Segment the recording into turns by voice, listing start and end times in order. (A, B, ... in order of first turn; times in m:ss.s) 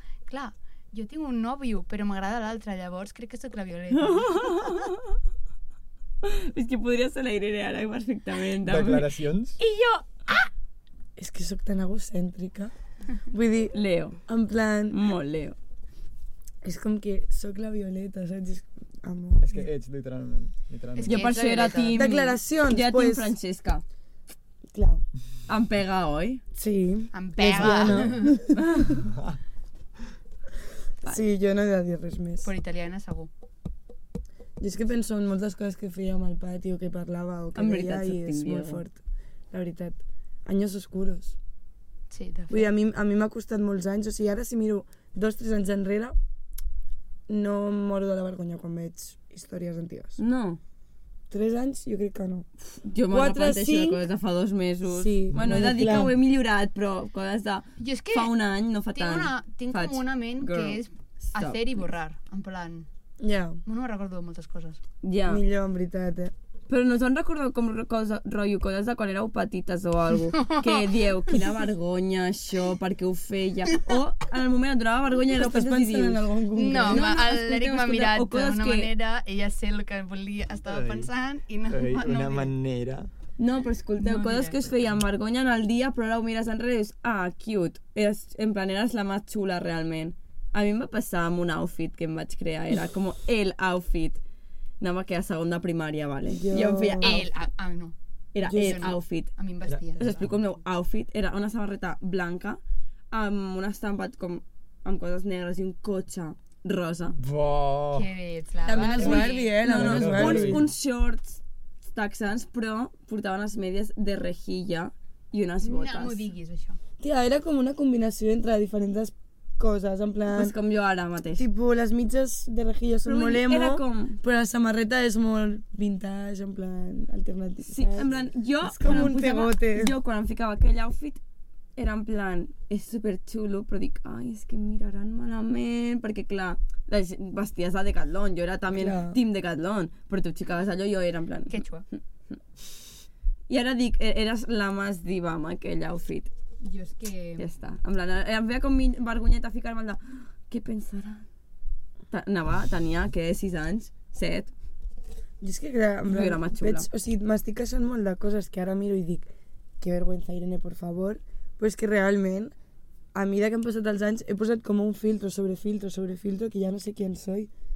0:00.3-0:04.7 A
0:03.9-0:05.2 B
0:06.2-0:09.1 B
0:08.6-0:09.6 C
0:09.6-0:10.0 B
0:11.2-0:12.7 D
0:13.3-0:13.7 D
0:13.7-0:14.2 B
0:14.2-0:15.0 D
0:14.9-0:15.6 B
0:16.6-0:19.7 D
0:19.4-0:21.3 C
0:20.9-0:22.1 A
0:21.0-0:23.8 B
0:21.9-0:23.3 D
0:24.7-0:25.0 D
0:25.5-0:26.4 B
0:26.5-0:28.8 D
0:27.1-0:28.4 A
0:28.6-0:29.0 B
0:28.9-0:29.4 C
0:31.0-0:32.5 D
0:32.4-0:33.3 A
0:34.6-0:39.0 D
0:37.5-0:38.8 B
0:39.5-0:41.4 D
0:42.1-0:42.7 A
0:42.5-0:46.2 D
0:47.3-0:50.2 D
0:50.2-0:50.6 B
0:51.3-0:52.5 D
0:52.6-1:01.8 B
0:53.1-0:54.0 D
0:54.9-0:56.2 D
0:55.4-0:55.7 C
0:57.8-0:58.4 A
0:58.9-1:02.9 A
1:03.2-1:03.6 D
1:03.6-1:04.8 A
1:05.0-1:05.4 B
1:05.3-1:06.3 D
1:06.7-1:18.9 B
1:10.3-1:11.4 A
1:15.3-1:17.1 D
1:16.6-1:22.5 A
1:20.7-1:21.1 C
1:21.7-1:23.1 C
1:23.4-1:34.2 B
1:24.0-1:24.6 A
1:34.8-1:37.3 B
1:36.3-1:37.2 D
1:37.0-1:37.9 A
1:38.3-1:39.3 B
1:38.4-1:38.8 D
1:38.5-1:40.0 A
1:39.6-1:40.3 C
1:40.0-1:42.6 B
1:43.1-1:47.2 B
1:47.2-1:48.1 C
1:47.9-1:49.5 A
1:48.6-1:50.7 D
1:49.0-1:56.2 B
1:49.0-1:50.6 C
1:55.6-1:56.8 A
1:57.0-2:00.5 D
2:00.3-2:01.4 B
2:01.4-2:08.1 D
2:03.0-2:04.2 B
2:07.7-2:11.2 B
2:08.6-2:09.9 D
2:11.8-2:21.6 B
2:18.7-2:19.2 D
2:21.5-2:21.8 A
2:23.5-2:26.3 B
2:26.6-2:27.4 A
2:27.4-2:31.2 B
2:32.1-2:34.5 B
2:35.4-2:39.3 D
2:36.1-2:36.9 B
2:39.8-2:42.5 D
2:43.1-2:47.5 D